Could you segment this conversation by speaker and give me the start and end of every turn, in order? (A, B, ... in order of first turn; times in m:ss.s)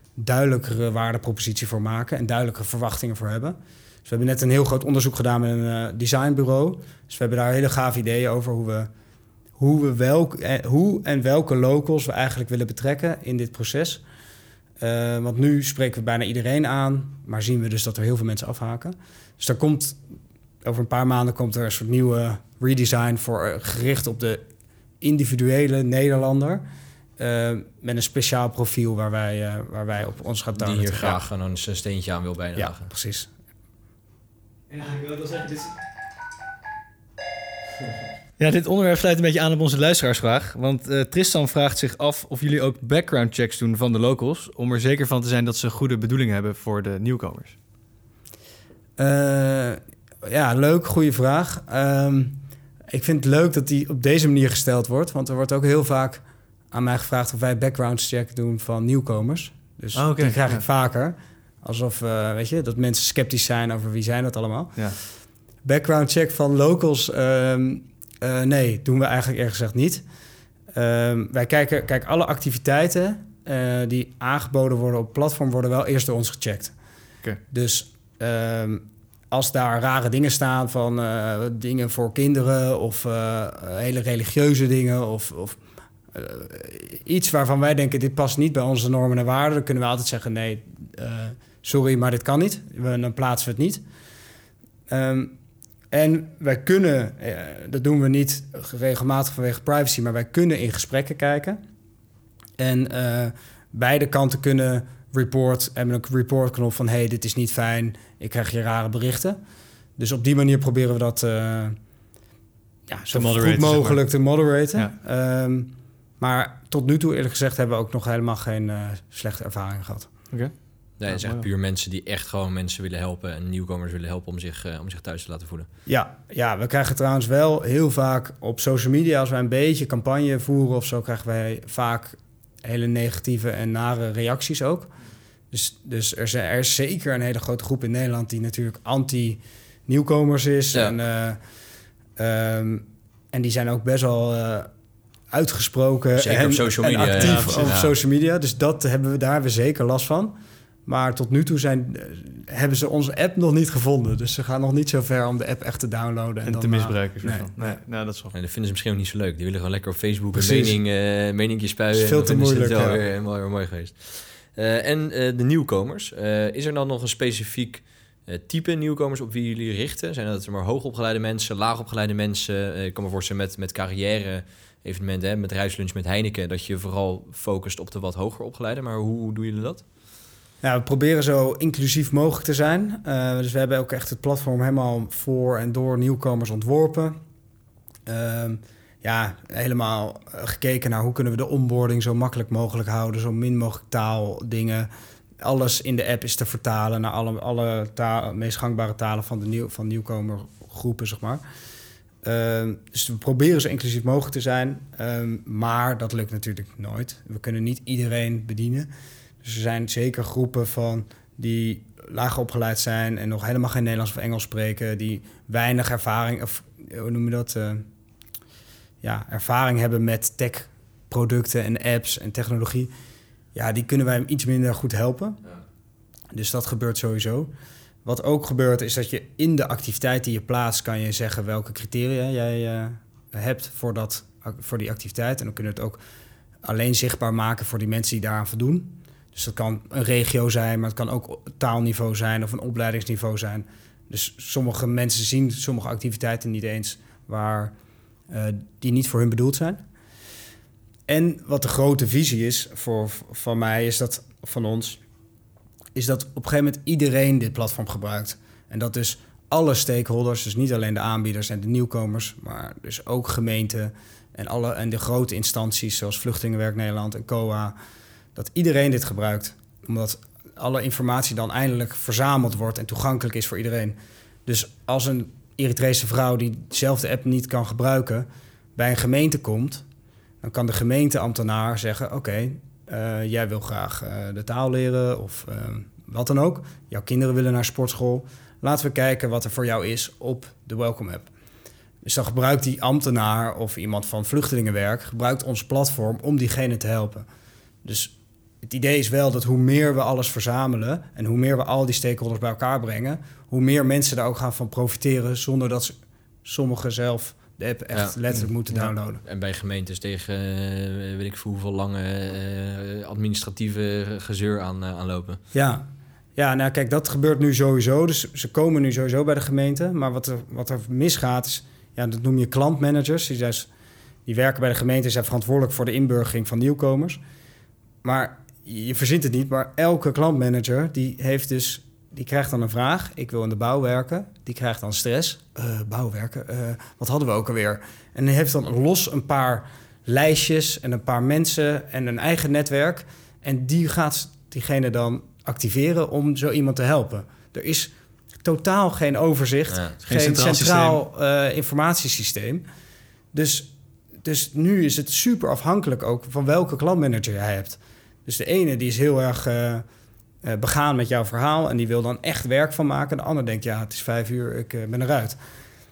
0:00.2-0:08.9 A
0:09.6-0:14.0 A
0:14.8-0:20.0 A
0:20.6-0:24.4 A
0:25.0-0:26.6 A
0:27.2-0:31.2 A
0:30.6-0:32.9 B
0:32.6-0:33.3 A
0:34.7-0:35.7 C
0:38.4-0:47.5 C
0:49.0-1:04.9 A
0:59.9-1:00.6 C
1:05.6-1:10.0 A
1:10.7-1:16.7 A
1:17.5-1:25.6 A
1:26.1-1:33.8 A
1:34.9-1:35.3 A
1:35.9-1:41.6 A
1:42.6-1:49.4 A
1:50.0-1:51.8 A
1:52.9-2:00.1 A
1:53.1-1:54.0 C
2:01.0-2:05.7 B
2:01.1-2:01.4 C
2:05.8-2:14.9 A
2:15.5-2:21.4 A
2:22.2-2:24.7 A
2:25.3-2:37.8 A
2:26.2-2:27.9 B
2:27.2-2:27.8 C
2:36.4-2:38.3 C
2:38.3-2:59.8 B
2:40.3-2:40.8 A
2:41.9-2:43.0 A
3:00.6-3:07.2 A
3:08.0-3:14.9 A
3:15.4-3:21.4 A
3:22.2-3:28.9 A
3:29.4-3:37.8 A
3:39.0-3:42.9 A
3:43.5-3:45.4 A
3:46.3-3:47.5 A
3:48.0-3:56.0 A
3:56.6-4:07.7 A
4:08.3-4:09.8 A
4:11.1-4:15.0 A
4:15.9-4:27.7 A
4:28.3-4:39.8 A
4:40.4-4:51.3 A
4:52.0-4:57.2 A
4:57.8-5:09.2 A
5:07.9-5:08.2 B
5:09.2-5:15.4 B
5:15.5-5:23.7 A
5:24.2-5:27.2 A
5:28.0-5:47.9 A
5:48.4-5:52.6 A
5:49.7-5:50.0 B
5:50.1-5:51.0 C
5:53.3-5:53.7 A
5:54.2-5:59.8 A
6:00.4-6:05.4 A